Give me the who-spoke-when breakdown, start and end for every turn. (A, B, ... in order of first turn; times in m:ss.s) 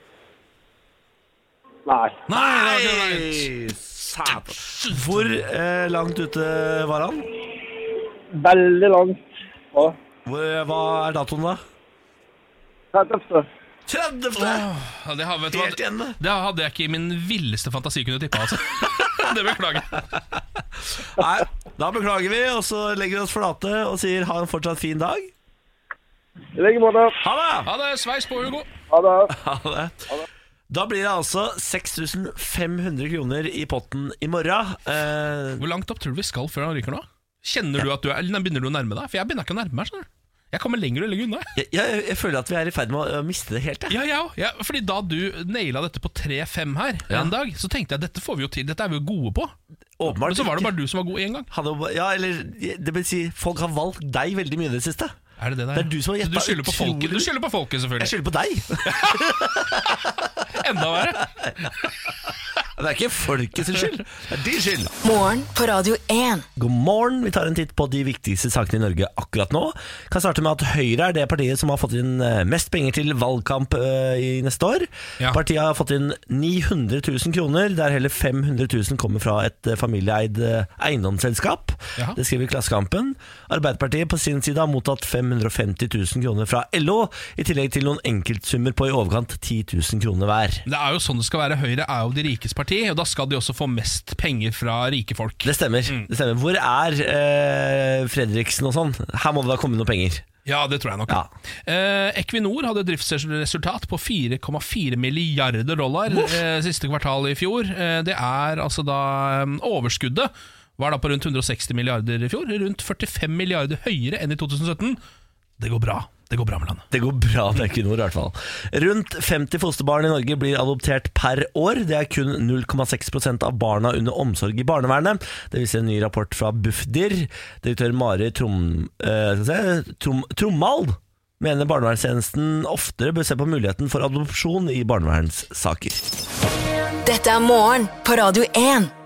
0:01.8-0:02.3 A
0:02.3-0:03.5 B
0:02.3-0:07.3 C
0:04.3-0:05.4 B
0:08.3-0:10.0 A
0:10.2-0:11.6 C
0:12.9-0:13.5 A
0:13.9-0:14.7 C
0:14.4-0:20.1 B
0:15.5-0:16.2 C
0:21.1-0:25.3 C
0:26.6-0:27.2 A
0:27.2-0:27.7 C
0:27.6-0:28.7 B
0:28.9-0:29.4 A
0:29.3-0:30.0 C
0:30.7-0:35.6 C
0:35.6-0:41.5 B
0:41.6-0:44.0 C
0:43.9-0:49.5 B
0:50.0-0:50.7 C
0:50.0-0:51.5 B
0:51.5-0:55.2 C
0:55.4-0:58.1 B
0:55.7-0:57.3 C
0:58.0-1:00.1 C
0:58.8-1:01.3 B
1:01.2-1:01.7 C
1:02.8-1:04.9 C
1:05.0-1:06.5 D
1:06.6-1:30.6 C
1:30.7-1:36.1 B
1:35.4-1:40.2 C
1:40.4-1:55.0 B
1:46.1-1:46.4 C
1:55.6-1:56.8 B
1:56.9-2:16.0 C
2:17.0-2:18.9 D